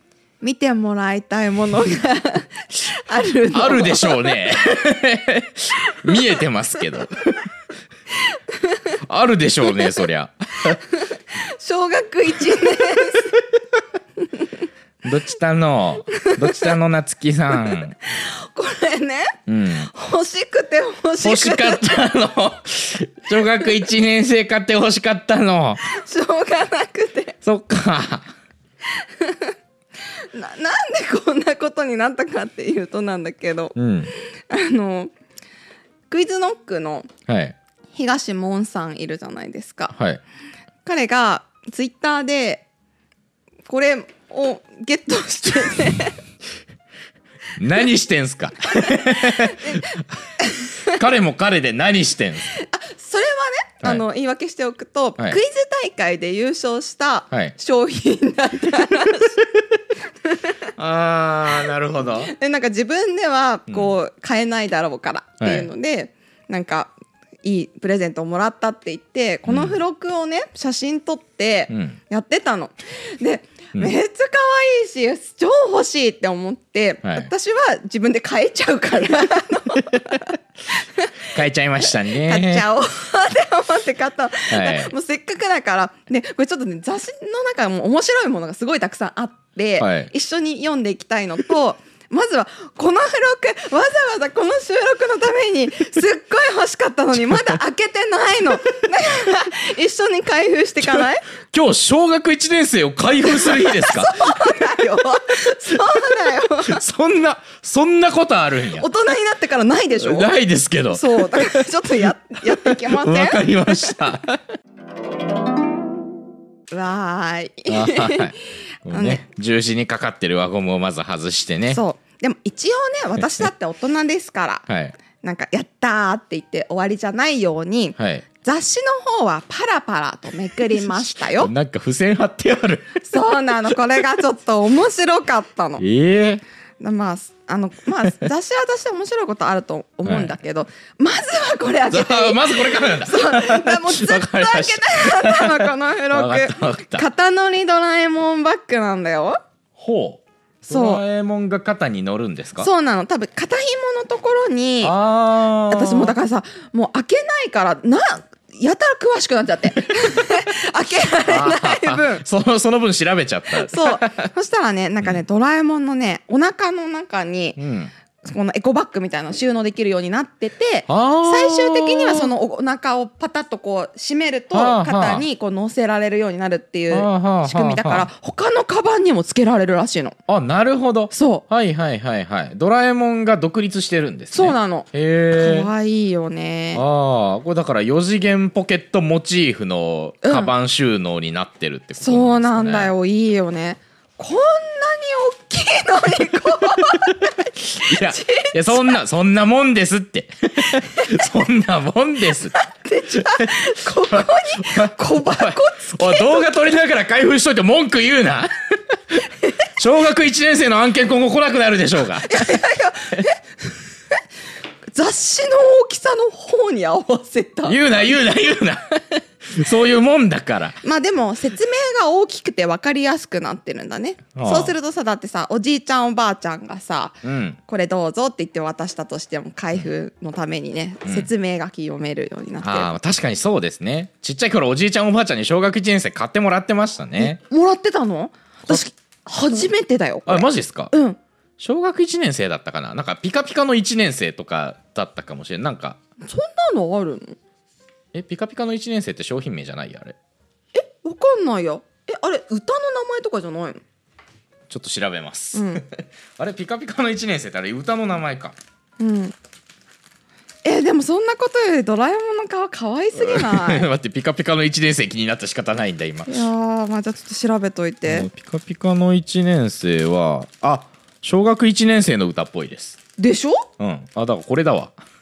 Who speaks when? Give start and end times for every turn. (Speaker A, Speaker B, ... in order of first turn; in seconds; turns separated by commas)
Speaker A: 0.4-4.3, Speaker B: 3.5-7.5, Speaker A: 8.5-8.9, Speaker B: 9.0-10.8, Speaker A: 10.9-13.4, Speaker B: 15.0-17.9, Speaker A: 16.1-16.7, Speaker A: 17.7-21.9, Speaker B: 19.5-19.9, Speaker B: 21.2-25.9, Speaker A: 25.8-27.4, Speaker B: 27.4-28.3, Speaker A: 28.9-29.5, Speaker A: 30.2-35.1, Speaker B: 33.8-34.1, Speaker A: 36.1-37.1, Speaker B: 37.3-37.5, Speaker A: 37.9-40.0, Speaker B: 40.0-40.2, Speaker A: 40.8-42.6, Speaker A: 43.7-46.2, Speaker B: 47.5-50.3, Speaker A: 49.1-51.0, Speaker B: 50.8-52.5, Speaker A: 52.5-59.4, Speaker B: 60.7-62.3, Speaker A: 62.0-66.9, Speaker B: 63.7-63.9, Speaker B: 65.4-65.7, Speaker A: 67.4-81.4, Speaker B: 69.5-69.8, Speaker B: 71.7-72.0, Speaker B: 77.0-77.3, Speaker B: 81.3-82.7, Speaker A: 81.9-101.3, Speaker B: 84.5-84.9, Speaker B: 89.8-90.1, Speaker B: 100.8-105.0, Speaker A: 103.3-106.8, Speaker B: 105.7-106.1, Speaker B: 106.6-108.9, Speaker A: 108.7-110.3, Speaker B: 110.0-111.7, Speaker A: 110.9-114.0, Speaker B: 112.6-114.3, Speaker A: 116.7-119.2, Speaker B: 117.7-121.8, Speaker A: 121.7-124.7, Speaker B: 124.7-125.0, Speaker A: 125.2-131.5, Speaker B: 128.0-128.2, Speaker B: 131.2-133.1, Speaker A: 133.0-135.8, Speaker B: 135.8-136.4, Speaker A: 136.8-149.4, Speaker B: 140.1-140.3, Speaker B: 141.9-147.1, Speaker B: 149.8-152.7, Speaker A: 150.6-151.0, Speaker A: 152.6-154.9, Speaker B: 154.8-156.2, Speaker A: 155.5-162.2, Speaker B: 160.0-160.4, Speaker B: 161.2-164.3, Speaker A: 163.5-167.6, Speaker B: 167.6-167.9, Speaker A: 168.2-180.2, Speaker B: 170.9-172.3, Speaker B: 174.5-175.2, Speaker B: 176.9-178.1, Speaker B: 180.3-185.7, Speaker A: 181.1-181.4, Speaker A: 184.3-186.8, Speaker B: 186.7-192.9, Speaker A: 190.2-190.5, Speaker A: 192.0-199.0, Speaker B: 196.8-202.5, Speaker A: 200.8-201.1, Speaker A: 202.5-206.5, Speaker B: 203.2-212.6, Speaker A: 212.2-213.7, Speaker A: 214.9-217.8, Speaker B: 217.6-220.8, Speaker A: 220.8-232.9, Speaker B: 224.3-224.7, Speaker B: 227.2-227.6, Speaker B: 232.6-237.4, Speaker A: 237.2-241.2, Speaker B: 240.2-240.9, Speaker B: 241.6-246.0, Speaker A: 246.2-247.4, Speaker B: 248.1-250.1, Speaker A: 250.7-253.8, Speaker B: 254.7-258.6, Speaker A: 255.5-255.8, Speaker A: 259.0-259.3, Speaker A: 260.6-263.9, Speaker B: 263.1-266.4, Speaker A: 266.3-268.3, Speaker B: 268.1-273.0, Speaker A: 273.2-273.7, Speaker B: 273.8-274.9